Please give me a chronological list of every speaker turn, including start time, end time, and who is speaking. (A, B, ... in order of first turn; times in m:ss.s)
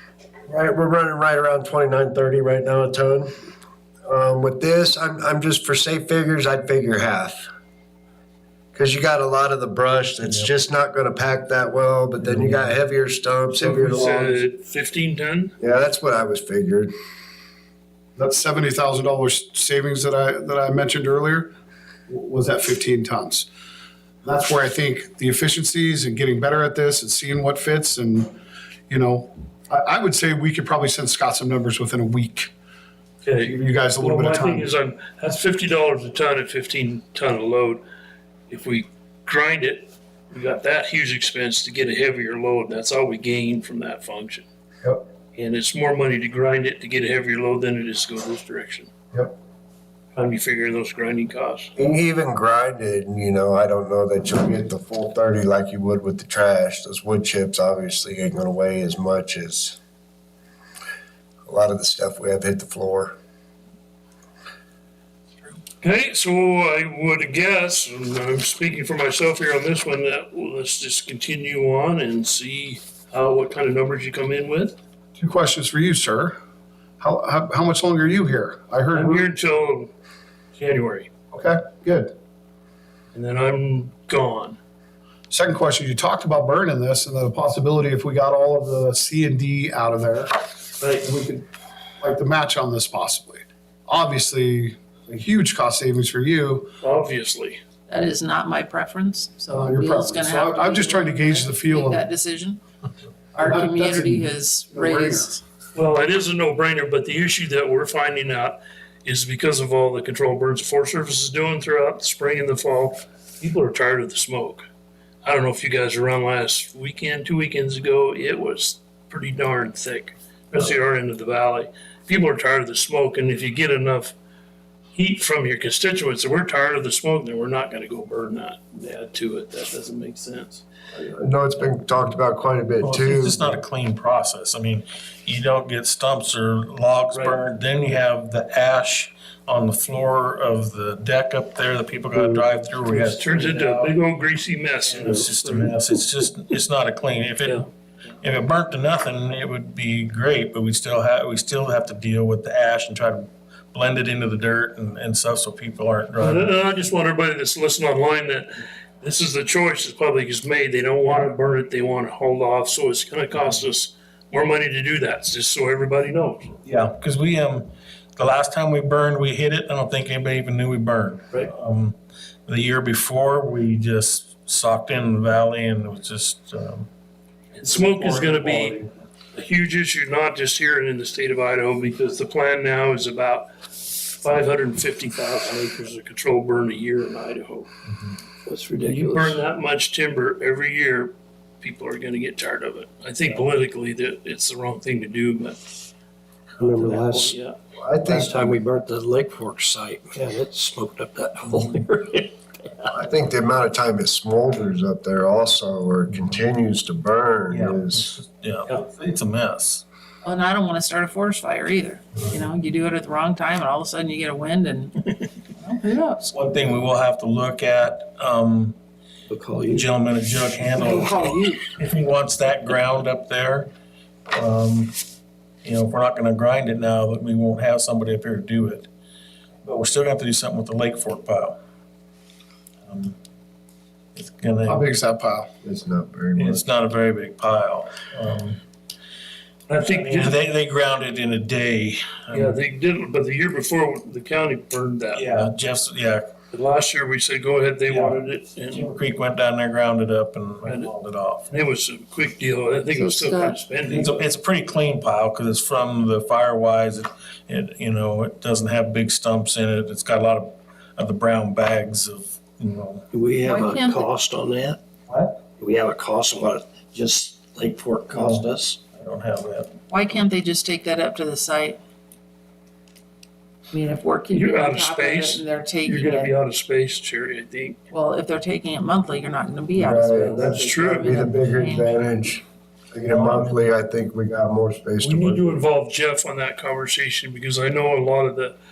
0:00.5-0:03.3 A
0:04.1-0:07.4 A
0:08.7-0:14.4 A
0:12.2-0:12.8 B
0:13.6-0:15.5 C
0:15.6-0:16.9 A
0:18.2-0:21.5 D
0:22.1-0:23.5 D
0:24.2-0:28.3 D
0:28.9-0:32.5 D
0:33.2-0:37.8 C
0:33.4-0:34.7 D
0:38.5-0:44.5 C
0:45.4-0:48.9 C
0:50.1-0:51.7 C
0:51.8-0:59.8 A
1:01.5-1:03.2 A
1:05.8-1:14.8 C
1:15.2-1:16.4 D
1:17.0-1:19.3 D
1:18.9-1:19.9 C
1:20.5-1:21.1 C
1:21.3-1:22.1 D
1:23.1-1:24.6 C
1:25.3-1:30.3 D
1:30.8-1:31.1 C
1:31.0-1:31.5 D
1:32.0-1:36.7 D
1:36.8-1:37.6 C
1:37.9-1:42.6 E
1:39.5-1:42.0 D
1:43.3-1:45.4 E
1:43.4-1:45.3 D
1:45.8-1:54.7 C
1:55.2-2:04.1 C
2:04.9-2:10.6 C
2:10.9-2:13.5 A
2:12.8-2:23.9 B
2:17.1-2:17.4 C
2:22.8-2:25.8 C
2:24.9-2:27.7 B
2:28.2-2:36.5 B
2:36.2-2:46.6 C
2:46.6-2:52.0 B
2:52.5-2:56.9 B
2:57.5-3:03.5 C
2:57.7-2:58.8 B
3:04.2-3:07.7 C
3:08.5-3:09.4 F
3:08.8-3:15.6 C
3:16.6-3:17.6 C
3:16.6-3:17.4 F
3:17.8-3:18.6 A
3:18.0-3:22.8 F
3:22.9-3:28.2 A
3:27.5-3:29.8 B
3:30.2-3:36.3 E
3:36.3-3:38.8 B
3:39.3-3:39.9 F
3:39.7-3:43.7 B
3:40.6-3:41.7 F
3:44.3-3:45.0 B
3:45.6-3:48.9 B
3:49.6-3:51.6 B
3:52.9-3:53.2 B
3:54.2-3:54.8 B
3:54.6-3:55.5 D
3:55.6-3:56.6 A
3:56.4-3:58.6 B
3:59.7-4:00.4 C
3:59.8-4:02.6 B
4:02.3-4:05.3 C
4:05.1-4:06.3 B
4:06.5-4:08.9 C
4:07.9-4:11.5 B
4:10.6-4:10.9 C
4:11.5-4:14.2 C
4:12.9-4:13.6 E
4:13.8-4:23.0 B
4:23.1-4:24.8 F
4:23.5-4:24.0 E
4:25.1-4:25.4 B
4:25.5-4:28.8 F
4:28.2-4:29.8 B
4:29.9-4:31.8 E
4:33.7-4:36.3 E
4:34.3-4:37.8 C
4:37.9-4:42.2 E
4:39.8-4:45.6 A
4:40.2-4:41.2 C
4:43.1-4:43.5 B
4:45.0-4:48.6 C